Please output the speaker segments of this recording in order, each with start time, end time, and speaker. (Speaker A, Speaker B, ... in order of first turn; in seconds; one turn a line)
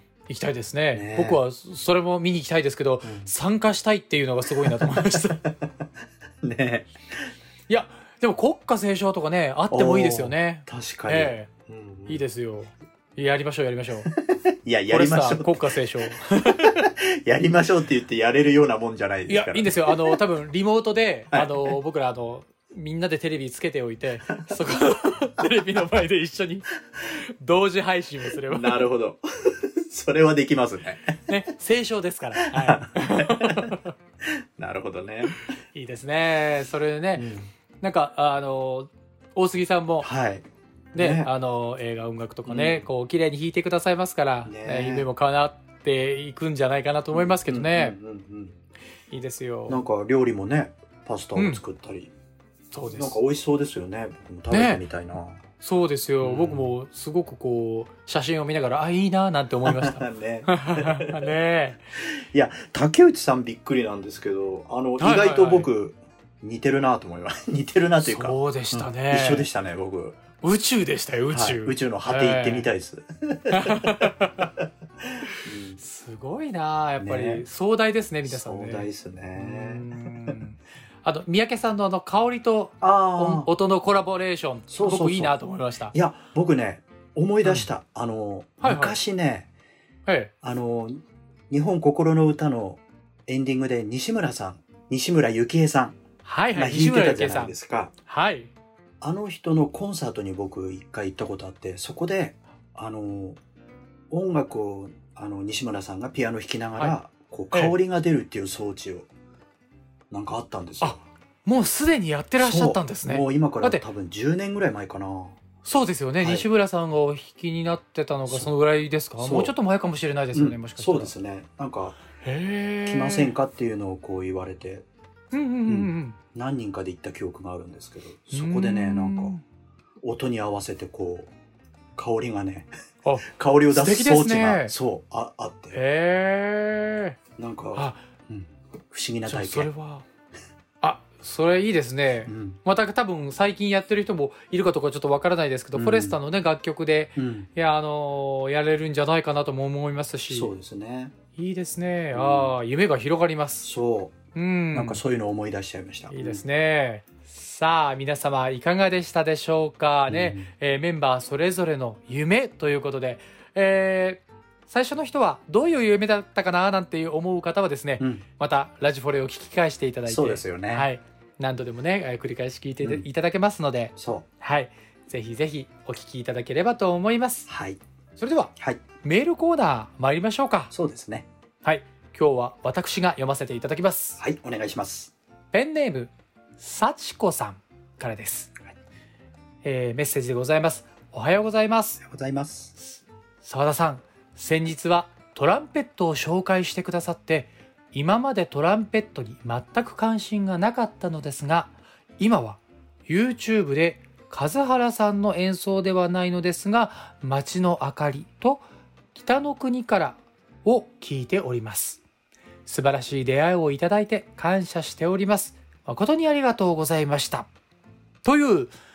Speaker A: 0.3-5.4
Speaker B: 0.9-1.4
Speaker B: 3.0-3.3
Speaker B: 4.5-5.8
Speaker B: 6.4-7.3
Speaker A: 7.7-11.5
Speaker B: 9.7-12.2
Speaker A: 12.1-14.1
Speaker B: 14.1-20.2
Speaker A: 14.9-16.9
Speaker A: 19.3-28.9
Speaker B: 21.3-21.8
Speaker B: 28.5-31.3
Speaker A: 31.3-33.9
Speaker B: 32.5-33.7
Speaker B: 34.6-35.4
Speaker A: 35.7-37.3
Speaker B: 37.1-37.5
Speaker A: 37.8-40.1
Speaker B: 40.0-41.3
Speaker A: 41.0-48.0
Speaker B: 42.5-42.9
Speaker B: 44.5-45.1
Speaker B: 47.1-48.6
Speaker A: 49.1-49.8
Speaker B: 49.7-52.1
Speaker A: 52.7-53.2
Speaker B: 52.9-55.4
Speaker A: 54.5-54.8
Speaker A: 55.6-61.9
Speaker B: 56.2-56.7
Speaker B: 59.6-61.3
Speaker B: 62.0-70.2
Speaker A: 65.0-65.7
Speaker A: 68.0-69.5
Speaker A: 70.4-72.7
Speaker B: 71.3-74.1
Speaker A: 73.5-74.5
Speaker B: 75.4-75.8
Speaker A: 75.8-85.9
Speaker B: 77.0-77.5
Speaker B: 78.2-80.4
Speaker B: 82.8-83.5
Speaker B: 84.7-85.4
Speaker B: 85.9-89.5
Speaker A: 88.6-89.0
Speaker B: 90.4-96.0
Speaker A: 96.2-97.5
Speaker B: 96.5-97.9
Speaker A: 98.0-98.5
Speaker B: 99.0-103.4
Speaker B: 104.1-109.1
Speaker B: 110.1-111.0
Speaker A: 110.8-113.8
Speaker B: 112.4-115.4
Speaker A: 115.6-121.1
Speaker B: 116.2-116.5
Speaker B: 118.3-118.5
Speaker B: 119.2-119.5
Speaker B: 120.3-122.0
Speaker A: 122.2-123.3
Speaker B: 122.8-124.9
Speaker A: 125.3-126.2
Speaker B: 125.7-129.4
Speaker A: 128.3-129.4
Speaker B: 130.0-131.3
Speaker B: 132.0-132.7
Speaker A: 133.0-134.7
Speaker B: 133.3-135.8
Speaker A: 135.7-137.2
Speaker B: 137.4-139.7
Speaker A: 137.7-138.0
Speaker A: 139.3-140.1
Speaker A: 140.8-150.5
Speaker B: 142.3-142.6
Speaker B: 145.7-146.2
Speaker B: 147.2-147.5
Speaker B: 150.3-151.2
Speaker A: 151.3-153.7
Speaker B: 152.1-152.6
Speaker B: 153.6-154.2
Speaker A: 154.3-155.0
Speaker B: 154.7-156.4
Speaker A: 156.1-177.5
Speaker B: 160.1-160.5
Speaker B: 168.0-168.2
Speaker B: 170.1-170.9
Speaker B: 172.8-173.1
Speaker B: 174.0-174.3
Speaker B: 177.5-177.8
Speaker A: 178.2-178.5
Speaker B: 178.6-178.8
Speaker A: 179.0-180.7
Speaker B: 180.7-181.3
Speaker A: 181.6-184.2
Speaker B: 184.2-185.1
Speaker A: 185.5-188.5
Speaker A: 189.6-192.0
Speaker B: 192.0-192.8
Speaker A: 192.8-212.0
Speaker A: 212.7-217.5
Speaker A: 218.2-218.7